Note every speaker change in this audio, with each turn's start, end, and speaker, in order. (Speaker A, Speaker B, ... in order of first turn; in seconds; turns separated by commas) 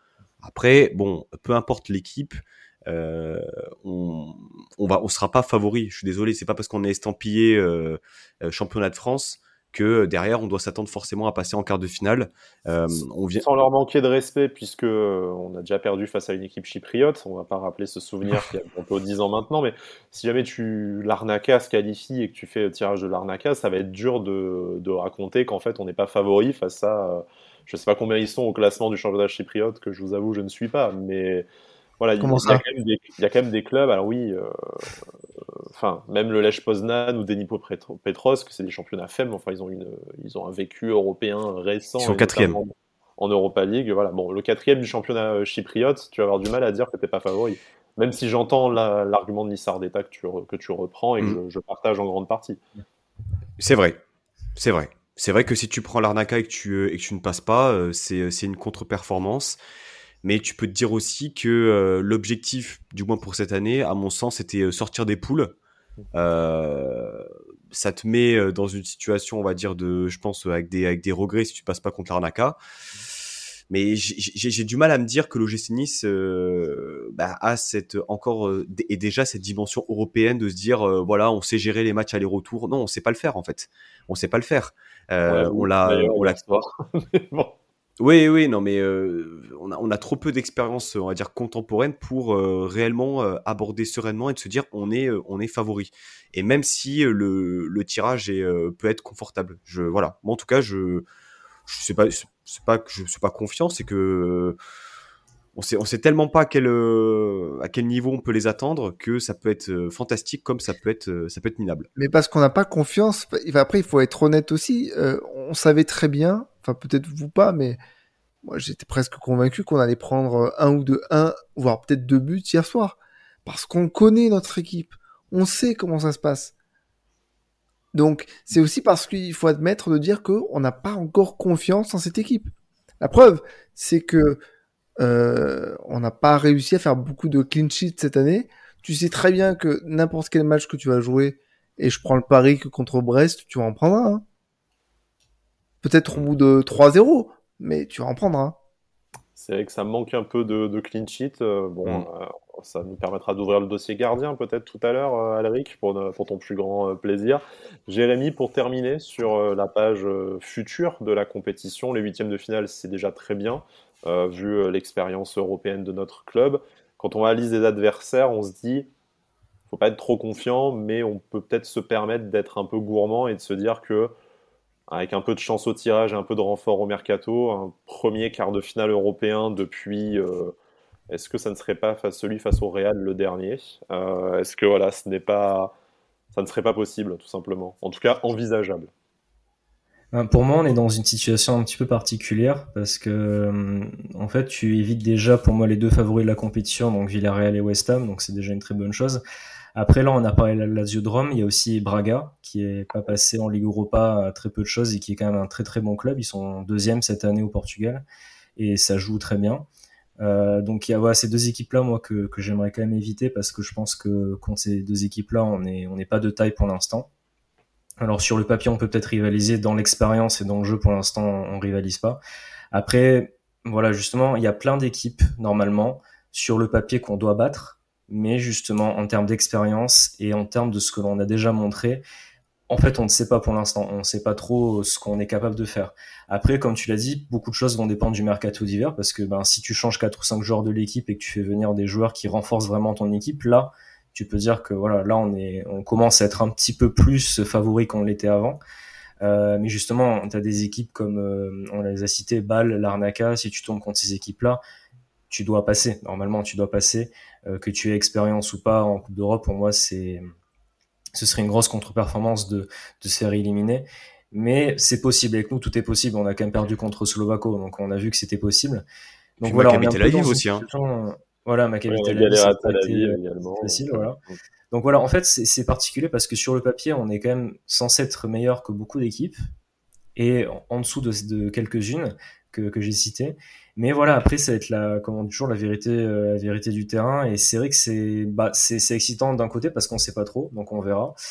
Speaker A: 0.4-13.5, Speaker B: 13.4-31.4, Speaker B: 32.0-34.9, Speaker C: 32.2-32.6, Speaker B: 35.7-52.6, Speaker A: 42.0-42.6, Speaker A: 53.6-54.0, Speaker A: 54.5-59.6, Speaker A: 60.2-65.6, Speaker A: 66.1-72.6, Speaker A: 73.7-86.6, Speaker B: 85.3-87.5, Speaker A: 88.0-101.0, Speaker A: 101.7-104.6, Speaker A: 105.5-111.9, Speaker C: 112.0-117.8, Speaker C: 118.4-126.5, Speaker C: 127.9-134.4, Speaker C: 135.0-144.2, Speaker C: 145.8-148.6, Speaker B: 149.3-168.9, Speaker B: 169.7-174.1, Speaker B: 174.9-180.5, Speaker B: 181.1-185.7, Speaker B: 186.3-188.9, Speaker D: 190.1-199.2, Speaker D: 199.7-208.0, Speaker D: 208.6-209.7, Speaker D: 210.2-217.1, Speaker D: 218.0-222.2, Speaker D: 222.7-232.0, Speaker D: 232.7-248.6, Speaker D: 249.2-254.6, Speaker D: 255.3-260.3, Speaker D: 261.1-268.8, Speaker D: 269.4-274.2, Speaker A: 269.4-270.6, Speaker B: 271.9-274.3, Speaker D: 274.7-279.4, Speaker D: 280.1-291.1